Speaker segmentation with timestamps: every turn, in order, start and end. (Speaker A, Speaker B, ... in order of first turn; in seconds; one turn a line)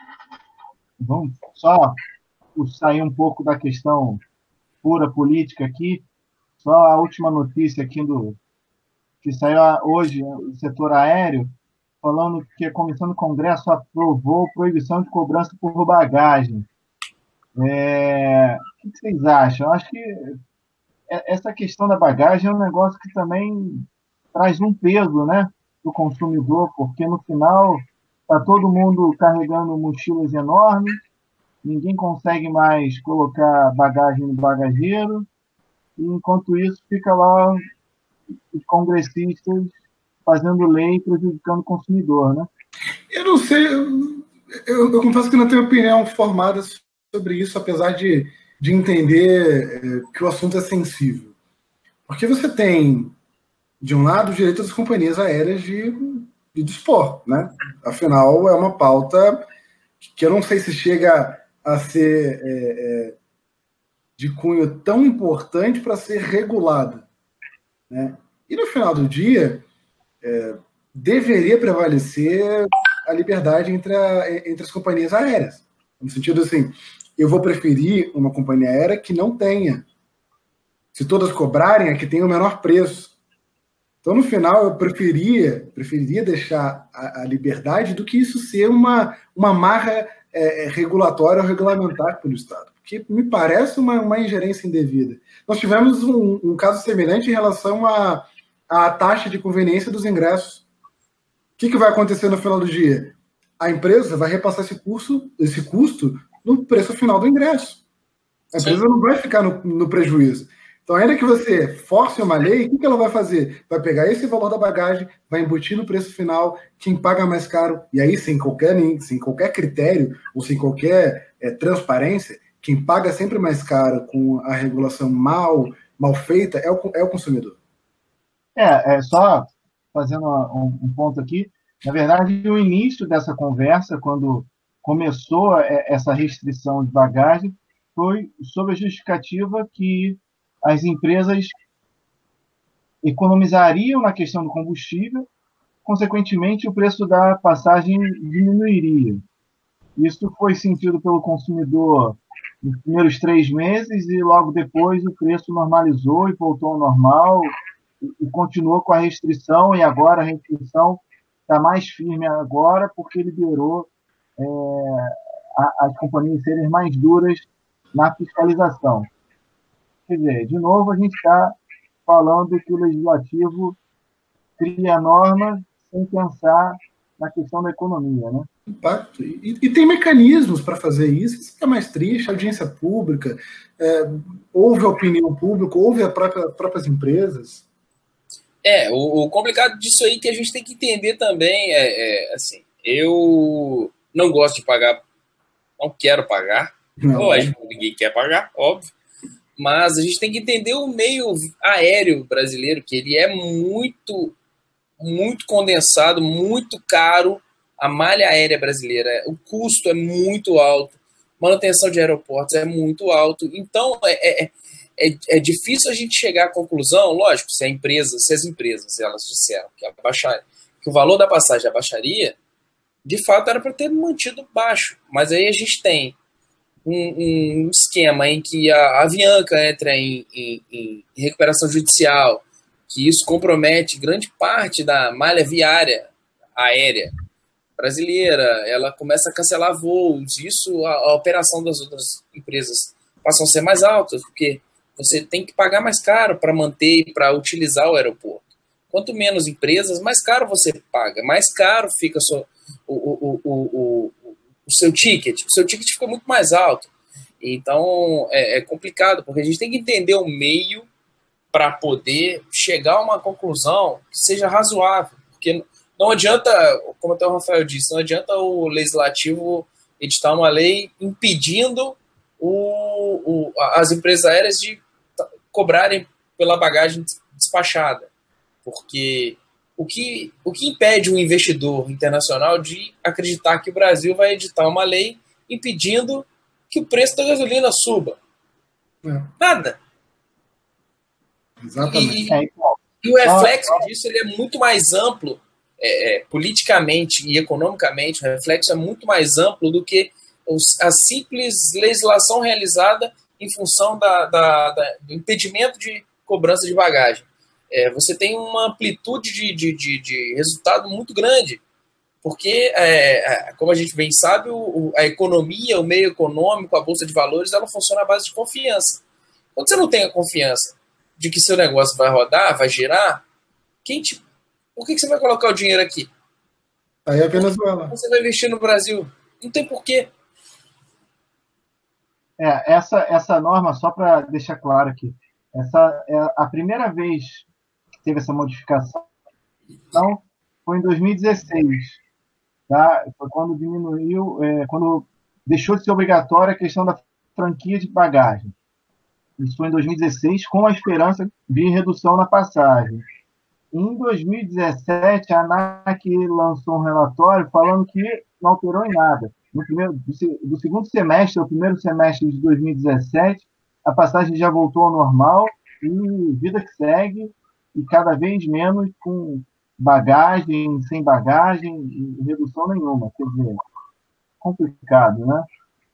Speaker A: 1.0-2.0
Speaker A: 2.5-4.2
Speaker A: 4.8-6.0
Speaker A: 6.6-8.4
Speaker A: 9.2-11.5
Speaker A: 12.0-16.7
Speaker A: 17.6-20.3
Speaker A: 21.1-31.0
Speaker A: 31.6-35.3
Speaker A: 36.0-37.6
Speaker A: 38.5-39.7
Speaker A: 40.2-42.5
Speaker B: 43.1-51.3
Speaker B: 52.1-53.1
Speaker B: 53.8-59.4
Speaker B: 60.0-63.1
Speaker B: 64.2-67.0
Speaker B: 67.9-69.6
Speaker B: 70.2-79.8
Speaker B: 80.9-83.1
Speaker B: 84.0-100.6
Speaker B: 101.6-107.8
Speaker B: 108.5-127.6
Speaker A: 128.6-141.6
Speaker A: 143.0-145.3
Speaker A: 145.8-149.2
Speaker A: 149.9-169.1
Speaker A: 170.1-171.5
Speaker A: 172.0-173.8
Speaker A: 174.6-178.5
Speaker B: 178.7-187.6
Speaker C: 188.6-195.0
Speaker C: 195.8-198.9
Speaker B: 197.0-197.5
Speaker C: 199.6-204.3
Speaker C: 205.0-222.3
Speaker C: 223.0-226.2
Speaker C: 226.8-237.1
Speaker C: 237.8-260.9
Speaker C: 261.5-278.1
Speaker C: 278.6-288.2
Speaker B: 289.0-289.3
Speaker C: 289.4-289.8
Speaker B: 291.6-292.2
Speaker C: 291.9-292.4
Speaker A: 292.3-293.8
Speaker C: 293.0-311.6
Speaker C: 312.2-319.0
Speaker C: 319.6-323.2
Speaker C: 323.8-324.2
Speaker C: 324.8-326.1
Speaker B: 327.1-327.9
Speaker C: 327.3-330.1
Speaker A: 332.4-337.5
Speaker A: 338.0-339.1
Speaker A: 339.9-342.0
Speaker A: 342.7-348.5
Speaker A: 349.4-353.0
Speaker A: 353.7-373.6
Speaker A: 374.4-375.4